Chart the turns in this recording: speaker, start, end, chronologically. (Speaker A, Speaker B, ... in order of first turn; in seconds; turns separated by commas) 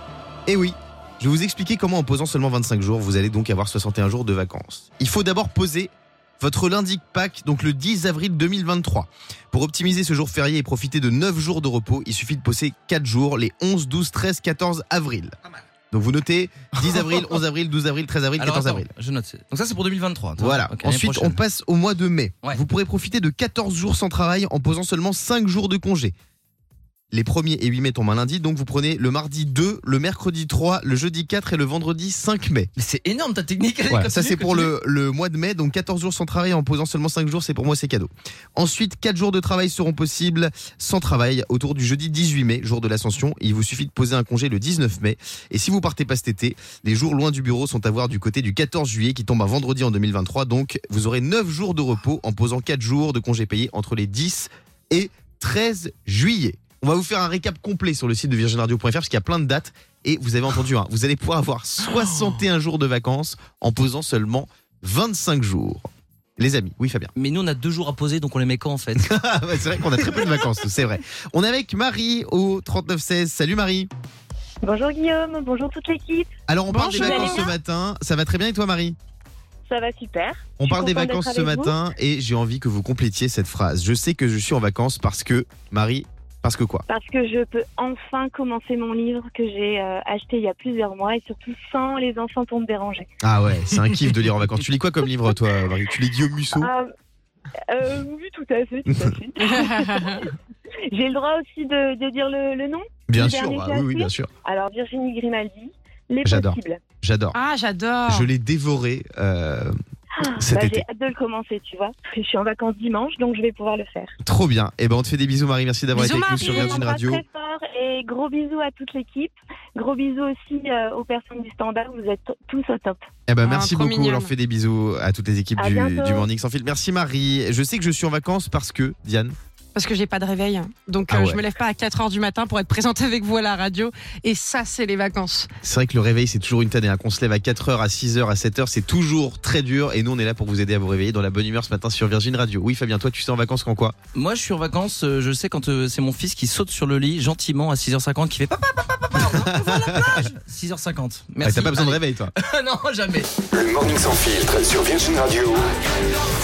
Speaker A: 0.5-15.3, Speaker A: 15.9-18.9, Speaker B: 18.4-21.4, Speaker A: 20.4-26.1, Speaker A: 27.1-32.7, Speaker B: 32.8-34.7, Speaker A: 33.9-65.8, Speaker A: 66.4-67.1, Speaker B: 67.2-69.1, Speaker A: 69.0-73.9, Speaker C: 74.6-76.3, Speaker A: 76.5-79.0, Speaker D: 76.7-77.5, Speaker C: 76.9-77.5, Speaker C: 79.7-81.8, Speaker A: 80.6-86.8, Speaker C: 86.9-93.1, Speaker A: 93.2-96.7, Speaker C: 96.6-96.9, Speaker C: 97.7-100.3, Speaker D: 99.5-100.2, Speaker C: 100.9-106.8, Speaker A: 103.1-104.3, Speaker A: 106.2-107.4, Speaker D: 107.3-108.3, Speaker A: 108.0-110.8, Speaker C: 110.2-114.1, Speaker A: 114.2-117.2, Speaker D: 115.9-117.0, Speaker C: 116.0-123.0, Speaker A: 123.3-129.3, Speaker D: 123.4-124.3, Speaker C: 125.6-126.3, Speaker D: 129.7-135.5, Speaker A: 131.1-131.4, Speaker A: 135.6-143.9, Speaker B: 144.1-153.3, Speaker A: 149.3-150.3, Speaker A: 151.4-152.3, Speaker E: 153.5-155.7